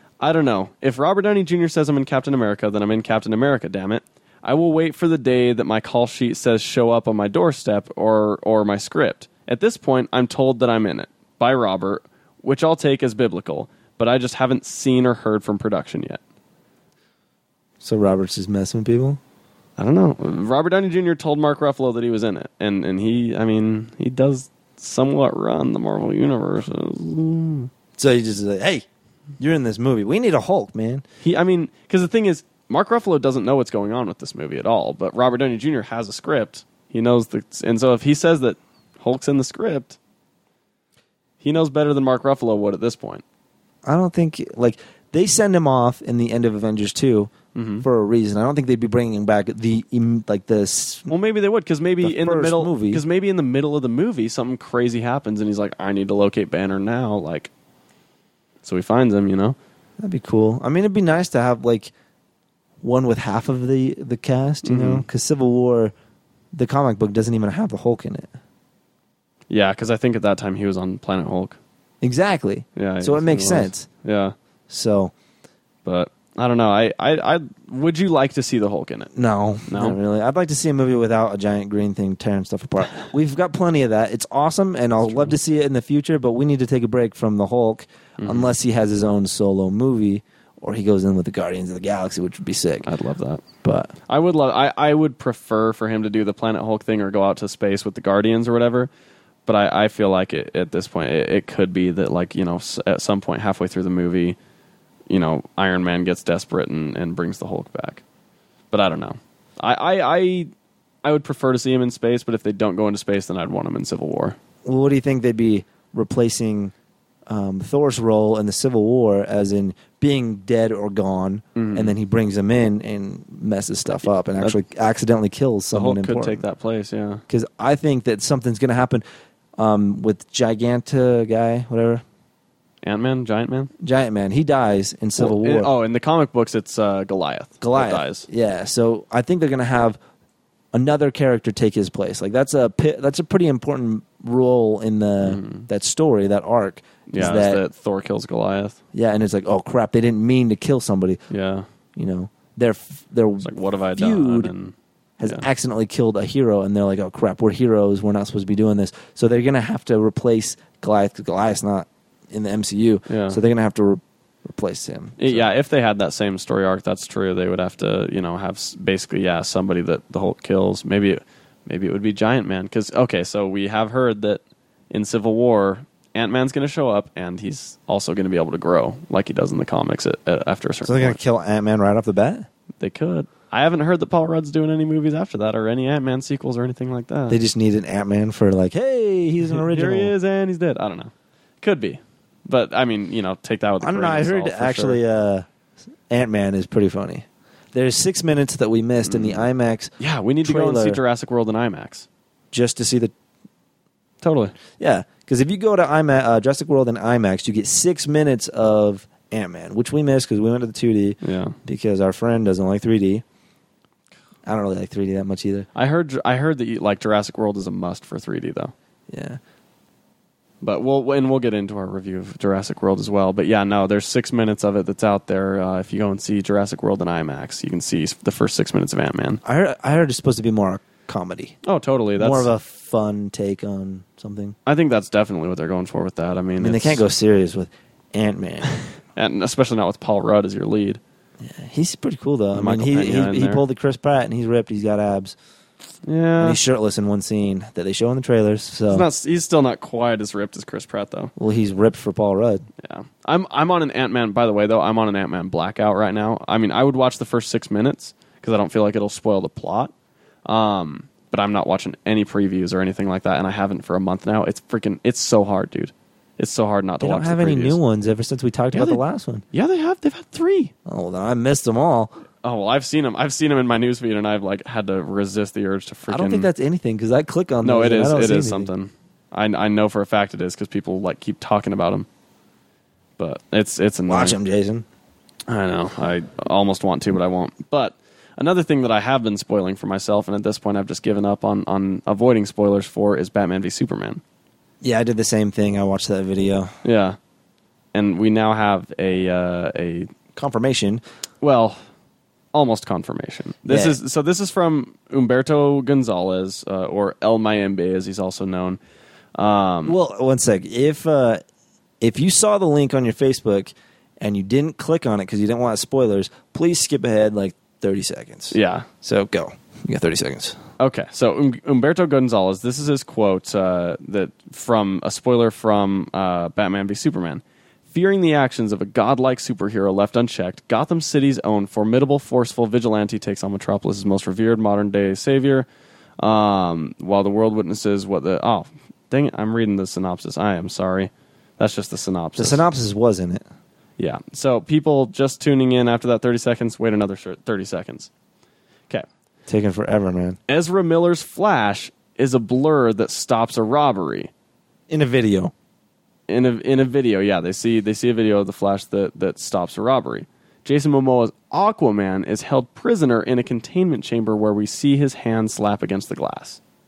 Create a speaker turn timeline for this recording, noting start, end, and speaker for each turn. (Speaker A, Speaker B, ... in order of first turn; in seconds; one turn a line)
Speaker A: 0.2-16.2
Speaker B: 17.8-19.2
Speaker A: 19.8-27.7
Speaker B: 28.0-28.8
Speaker B: 29.4-31.0
Speaker A: 31.2-40.0
Speaker A: 41.4-43.2
Speaker B: 43.8-51.1
Speaker A: 47.5-47.8
Speaker A: 51.1-57.5
Speaker B: 52.0-53.0
Speaker A: 58.6-59.5
Speaker B: 60.0-61.9
Speaker B: 62.8-65.9
Speaker A: 64.6-65.0
Speaker B: 66.5-68.3
Speaker A: 69.5-71.6
Speaker B: 72.0-73.9
Speaker A: 72.8-74.3
Speaker B: 74.7-75.1
Speaker A: 75.8-79.1
Speaker B: 79.1-92.9
Speaker A: 79.7-80.0
Speaker A: 85.0-85.3
Speaker A: 88.2-88.5
Speaker A: 92.8-93.4
Speaker B: 93.6-93.9
Speaker A: 94.1-98.9
Speaker A: 99.5-104.4
Speaker A: 105.1-108.0
Speaker A: 108.7-110.5
Speaker A: 111.0-114.4
Speaker B: 114.6-116.7
Speaker B: 117.3-126.4
Speaker A: 121.5-121.9
Speaker A: 125.7-127.2
Speaker B: 127.3-129.0
Speaker B: 129.6-132.0
Speaker A: 132.8-133.7
Speaker B: 133.8-135.7
Speaker A: 135.2-138.3
Speaker B: 137.6-140.0
Speaker B: 140.7-147.6
Speaker A: 145.2-145.7
Speaker A: 147.1-148.8
Speaker B: 148.9-151.2
Speaker A: 151.3-151.7
Speaker B: 151.9-154.5
Speaker A: 153.4-155.4
Speaker B: 155.2-165.4
Speaker A: 163.1-163.4
Speaker A: 165.2-181.2
Speaker B: 180.8-182.5
Speaker A: 182.8-187.4
Speaker B: 187.3-190.1
Speaker A: 189.5-195.0
Speaker B: 193.8-195.4
Speaker B: 196.1-199.9
Speaker A: 199.1-199.4
Speaker A: 200.0-202.1
Speaker B: 200.4-201.0
Speaker B: 202.5-203.1
Speaker A: 204.2-204.5
Speaker B: 204.8-213.2
Speaker A: 211.2-211.6
Speaker B: 214.4-215.7
Speaker A: 215.7-218.7
Speaker B: 219.1-219.4
Speaker A: 220.6-229.4
Speaker B: 229.4-231.6
Speaker A: 231.6-232.5
Speaker B: 232.2-234.5
Speaker A: 234.7-237.0
Speaker B: 236.6-238.7
Speaker A: 239.1-241.0
Speaker B: 241.4-245.3
Speaker A: 242.5-243.6
Speaker A: 246.1-246.6
Speaker B: 246.4-249.1
Speaker A: 248.9-251.3
Speaker B: 251.4-252.7
Speaker A: 252.8-259.9
Speaker A: 260.4-267.8
Speaker B: 267.0-269.4
Speaker A: 268.7-270.7
Speaker B: 270.9-272.1
Speaker A: 272.4-276.5
Speaker B: 276.1-278.7
Speaker A: 277.6-282.1
Speaker A: 283.2-284.4
Speaker B: 284.1-284.8
Speaker A: 285.5-294.2
Speaker B: 294.8-296.7
Speaker A: 296.8-297.2
Speaker A: 297.9-300.1
Speaker B: 300.3-301.0
Speaker A: 301.4-301.8
Speaker A: 302.5-308.8
Speaker B: 303.7-304.0
Speaker A: 309.3-309.9
Speaker B: 309.9-311.4
Speaker B: 312.0-320.6
Speaker A: 318.5-318.9
Speaker A: 320.8-335.7
Speaker A: 336.2-342.6
Speaker B: 342.4-343.4
Speaker A: 344.0-348.1
Speaker B: 349.5-350.4
Speaker A: 350.5-354.3
Speaker B: 354.9-355.5
Speaker A: 356.3-366.6